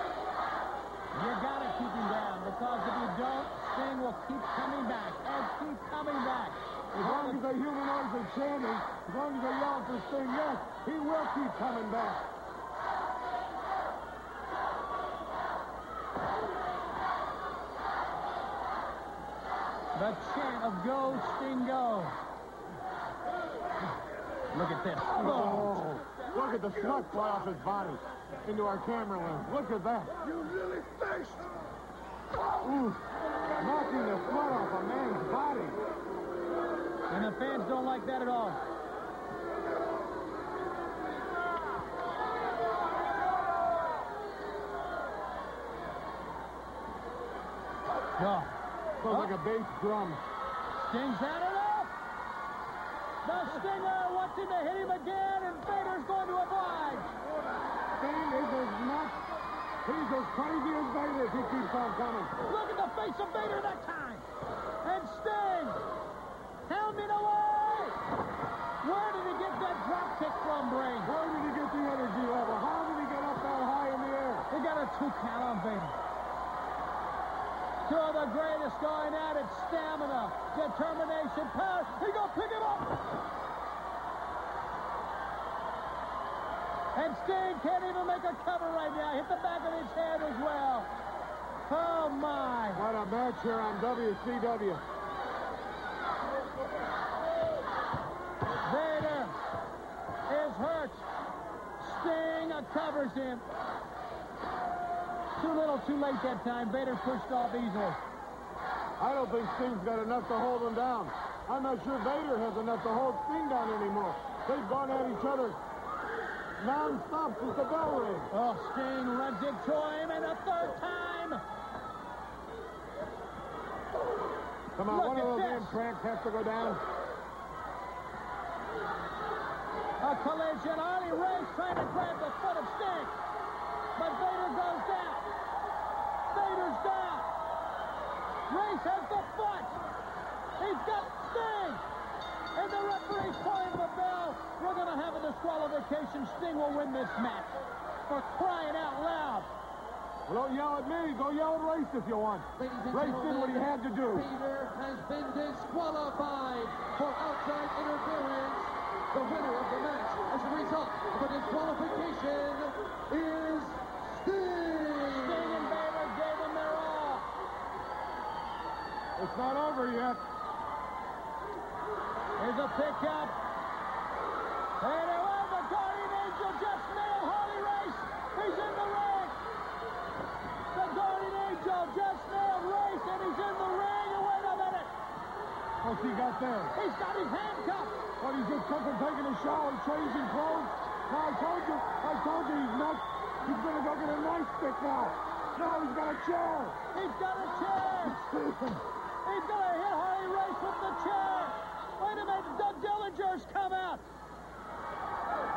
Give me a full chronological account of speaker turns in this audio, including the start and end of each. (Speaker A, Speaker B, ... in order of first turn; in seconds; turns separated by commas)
Speaker A: 1.1-7.4, Speaker B: 7.0-12.2, Speaker A: 19.9-22.2, Speaker A: 24.5-25.8, Speaker B: 25.2-30.1, Speaker C: 26.3-27.7, Speaker C: 30.2-31.5, Speaker C: 32.3-32.8, Speaker B: 32.6-33.0, Speaker B: 33.6-35.8, Speaker A: 37.1-38.6, Speaker A: 48.2-48.5, Speaker B: 49.0-50.2, Speaker A: 49.1-49.3, Speaker A: 50.8-51.9, Speaker A: 53.2-57.1, Speaker B: 58.0-59.2, Speaker B: 59.9-62.3, Speaker A: 62.5-64.3, Speaker A: 64.8-65.8, Speaker A: 66.7-68.0, Speaker A: 68.8-71.1, Speaker B: 71.0-74.5, Speaker A: 74.5-76.0, Speaker A: 77.8-83.2, Speaker A: 87.0-90.9, Speaker A: 91.7-92.8, Speaker B: 92.8-94.8, Speaker A: 98.6-99.3, Speaker A: 100.3-101.0, Speaker A: 101.8-103.4, Speaker A: 105.4-108.0, Speaker B: 109.0-115.6, Speaker B: 116.6-118.3, Speaker A: 118.3-121.4, Speaker B: 124.8-126.8, Speaker A: 124.9-125.8, Speaker A: 130.0-133.1, Speaker A: 133.9-135.2, Speaker A: 136.3-137.3, Speaker A: 138.5-139.8, Speaker A: 140.6-141.8, Speaker A: 142.6-149.5, Speaker B: 150.3-154.3, Speaker D: 152.6-165.7, Speaker A: 165.1-167.3, Speaker B: 169.2-170.2, Speaker A: 172.4-173.4, Speaker A: 174.8-179.4, Speaker A: 180.7-184.9, Speaker B: 185.8-186.7, Speaker A: 186.8-188.0, Speaker B: 188.2-196.8, Speaker A: 196.9-198.2, Speaker B: 198.0-198.8, Speaker A: 199.2-204.0